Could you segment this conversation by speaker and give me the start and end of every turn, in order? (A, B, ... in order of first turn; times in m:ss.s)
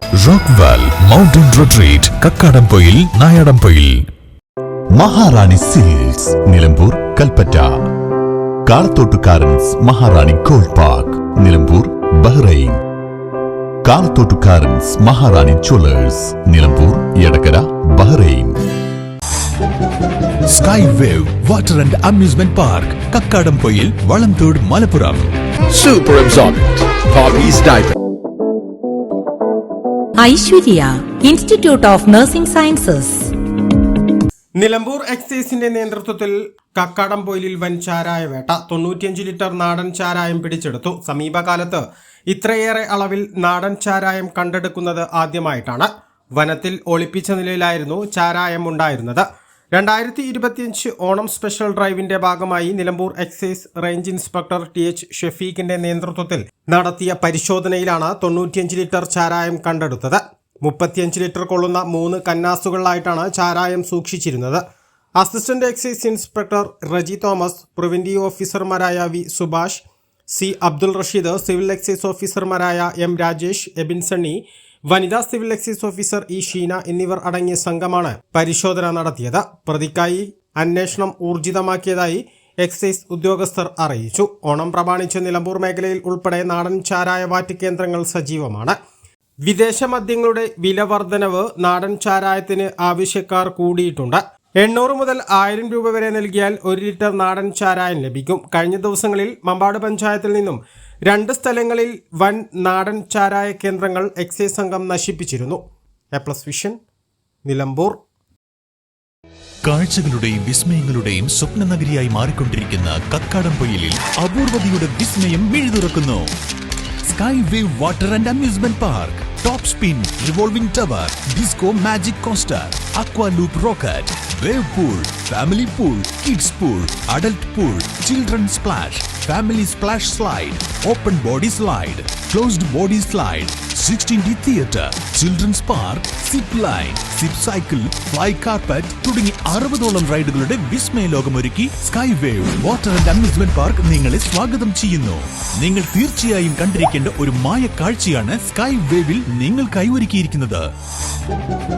0:00.2-0:04.0 A
0:04.9-0:07.7 B
0:08.7-0:12.8 B
0:13.8-0:18.6 B
0:20.5-0:25.3 A
0:25.7-0:27.9 C
0:30.2-0:33.3 D
0:34.6-1:04.6 E
1:05.2-1:28.8 E
1:29.5-1:45.6 E
1:46.1-1:46.8 E
1:47.4-1:48.0 E
1:49.6-1:56.3 A
1:57.0-2:30.7 A